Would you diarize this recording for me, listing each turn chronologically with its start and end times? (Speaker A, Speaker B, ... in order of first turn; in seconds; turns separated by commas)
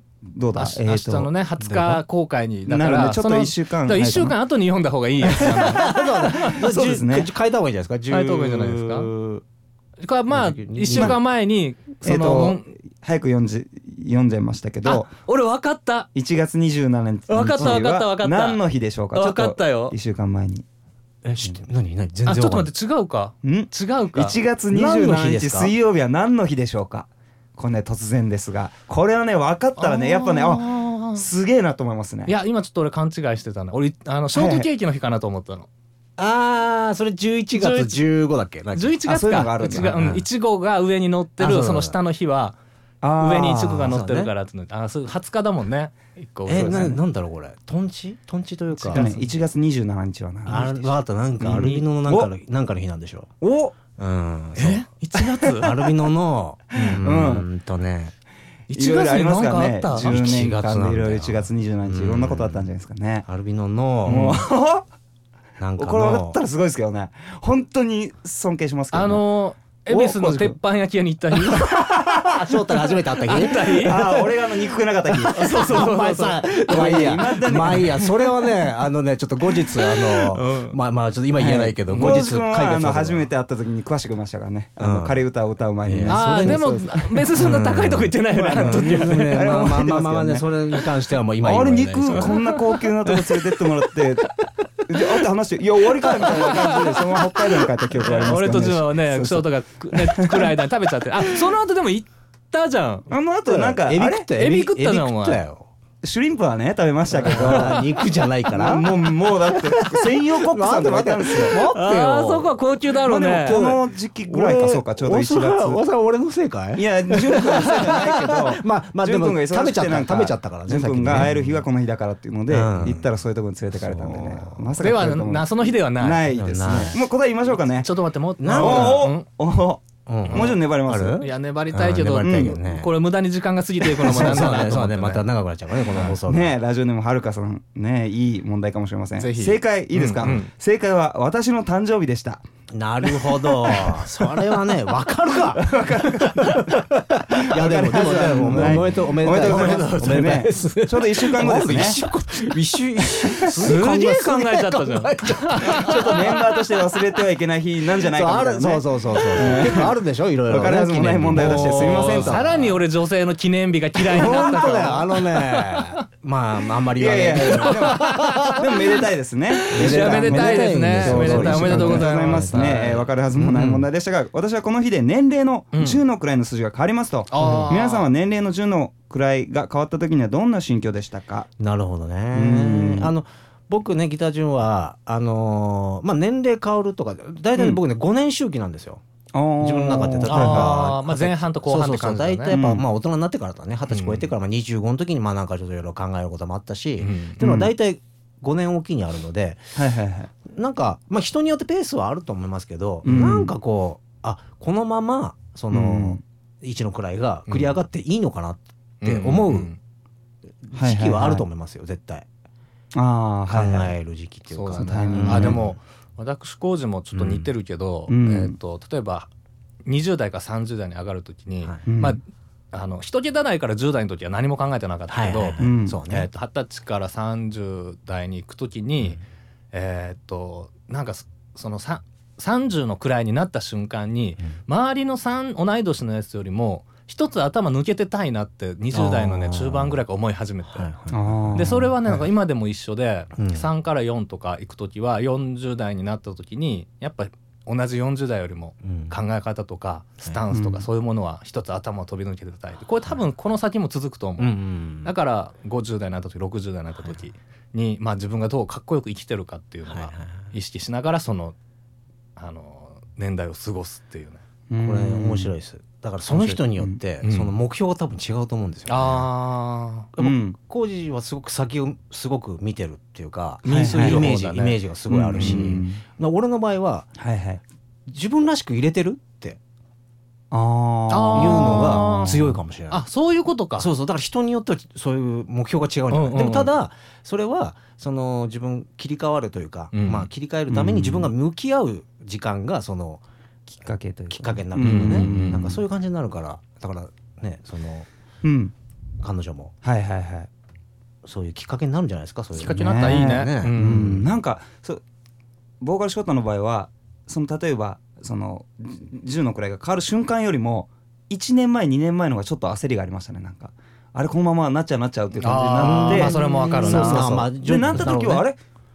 Speaker A: 0.3-2.0, Speaker B: 0.5-6.6, Speaker A: 2.7-4.4, Speaker C: 5.3-9.4, Speaker A: 6.4-7.3, Speaker B: 8.1-9.1, Speaker B: 10.0-12.7, Speaker C: 10.3-11.2, Speaker A: 10.9-11.2, Speaker A: 12.0-15.1, Speaker B: 14.8-16.1, Speaker A: 16.1-20.7, Speaker B: 17.3-19.9, Speaker C: 17.6-17.8, Speaker C: 21.2-22.7, Speaker B: 22.3-24.4, Speaker A: 23.4-32.4, Speaker C: 24.7-25.7, Speaker B: 29.8-31.3, Speaker B: 32.3-35.7, Speaker A: 34.3-34.7, Speaker C: 36.2-39.0, Speaker B: 37.5-38.0, Speaker B: 38.8-42.6, Speaker A: 39.0-40.0, Speaker C: 39.8-40.2, Speaker C: 41.4-42.0, Speaker A: 43.0-44.0, Speaker B: 43.2-47.0, Speaker C: 43.8-44.3, Speaker C: 46.5-49.1, Speaker A: 46.5-47.0, Speaker B: 48.9-49.3, Speaker A: 48.9-50.8, Speaker C: 50.5-53.3, Speaker B: 50.5-50.8, Speaker A: 51.4-52.3, Speaker A: 53.4-53.8, Speaker C: 54.0-54.9, Speaker B: 54.6-55.9, Speaker C: 55.4-58.1, Speaker A: 56.8-57.5, Speaker B: 58.7-60.2, Speaker A: 58.7-63.2, Speaker C: 60.0-62.7, Speaker C: 63.3-64.5, Speaker A: 64.0-64.9, Speaker C: 65.6-66.4, Speaker A: 65.8-69.2, Speaker B: 68.9-71.8, Speaker A: 69.9-70.6, Speaker C: 71.7-74.3, Speaker B: 73.2-74.1, Speaker A: 73.8-76.0, Speaker C: 75.2-83.2, Speaker B: 75.3-77.1, Speaker A: 76.7-78.5, Speaker B: 79.8-80.8, Speaker A: 81.4-87.3, Speaker C: 84.8-85.2, Speaker C: 85.8-93.2, Speaker B: 86.1-89.6, Speaker A: 88.3-90.5, Speaker A: 91.4-100.5, Speaker B: 92.1-92.5, Speaker B: 96.2-97.0, Speaker B: 97.9-103.1, Speaker A: 103.1-104.3, Speaker C: 103.5-105.7, Speaker B: 104.3-105.4, Speaker A: 106.0-107.9, Speaker C: 107.1-112.6, Speaker B: 107.3-107.8, Speaker A: 108.5-111.6, Speaker B: 111.5-113.6, Speaker A: 113.0-115.8, Speaker C: 113.4-121.6, Speaker A: 116.8-127.9, Speaker C: 122.5-123.1, Speaker C: 123.7-124.7, Speaker B: 124.8-126.3, Speaker C: 126.3-127.0, Speaker B: 127.8-129.3, Speaker C: 128.4-129.1, Speaker A: 128.5-131.3, Speaker C: 130.1-132.9, Speaker B: 130.3-130.6, Speaker B: 131.2-135.2, Speaker A: 132.2-132.6, Speaker C: 133.9-136.6, Speaker A: 134.1-134.4, Speaker A: 136.1-142.4, Speaker B: 139.2-140.5, Speaker C: 142.7-156.5, Speaker A: 145.6-146.8, Speaker A: 147.3-152.0, Speaker B: 148.4-150.5, Speaker B: 153.4-156.0, Speaker A: 155.7-162.6, Speaker C: 158.0-162.8, Speaker B: 161.3-166.0, Speaker C: 164.0-168.7, Speaker A: 167.0-181.5, Speaker B: 167.5-168.6, Speaker B: 169.6-173.0, Speaker C: 169.7-173.9, Speaker B: 175.7-176.0, Speaker B: 177.3-178.1, Speaker C: 177.4-177.7, Speaker C: 181.6-189.0, Speaker A: 182.3-183.1, Speaker A: 189.3-190.8, Speaker C: 189.6-199.7, Speaker B: 190.3-192.6, Speaker A: 192.5-192.8, Speaker B: 193.9-194.3, Speaker B: 197.0-197.4, Speaker A: 197.4-197.7, Speaker A: 199.8-200.3, Speaker C: 200.4-209.7, Speaker A: 203.0-203.5, Speaker A: 205.7-206.2, Speaker B: 207.5-207.7, Speaker B: 209.0-209.8, Speaker C: 210.6-212.3, Speaker A: 210.8-211.4, Speaker A: 212.9-213.9, Speaker C: 213.5-215.7, Speaker B: 214.5-219.3, Speaker A: 214.8-215.7, Speaker C: 217.1-217.5, Speaker A: 218.1-218.6, Speaker B: 219.8-229.2, Speaker A: 221.9-222.2, Speaker C: 225.1-226.3, Speaker A: 225.6-226.0, Speaker B: 229.7-240.9, Speaker C: 238.9-240.0, Speaker C: 240.7-241.6, Speaker A: 241.1-242.0, Speaker B: 241.5-261.6, Speaker C: 243.4-243.7, Speaker C: 248.8-249.2, Speaker A: 250.5-250.9, Speaker C: 254.4-255.1, Speaker C: 256.9-257.2, Speaker C: 259.9-260.5, Speaker B: 262.4-264.4, Speaker A: 264.7-265.5, Speaker C: 264.8-269.3, Speaker A: 266.3-267.0, Speaker B: 267.2-267.5, Speaker B: 268.9-270.1, Speaker C: 270.2-277.1, Speaker A: 270.2-270.6, Speaker B: 273.6-274.8, Speaker A: 273.7-274.3, Speaker A: 275.1-276.0, Speaker B: 275.4-275.8, Speaker A: 277.2-277.6, Speaker C: 278.1-279.6, Speaker A: 280.5-282.3, Speaker B: 281.1-283.9, Speaker C: 281.3-283.0, Speaker C: 283.8-293.2, Speaker B: 286.1-286.7, Speaker B: 289.9-290.3, Speaker A: 290.7-291.3, Speaker A: 293.7-295.8, Speaker C: 294.3-298.1, Speaker B: 294.8-295.7, Speaker A: 298.4-298.7, Speaker C: 299.2-299.7, Speaker A: 299.8-300.5, Speaker C: 301.2-304.3, Speaker B: 302.6-304.0, Speaker A: 302.8-305.0, Speaker A: 305.8-318.6, Speaker B: 315.4-317.4, Speaker C: 315.8-318.5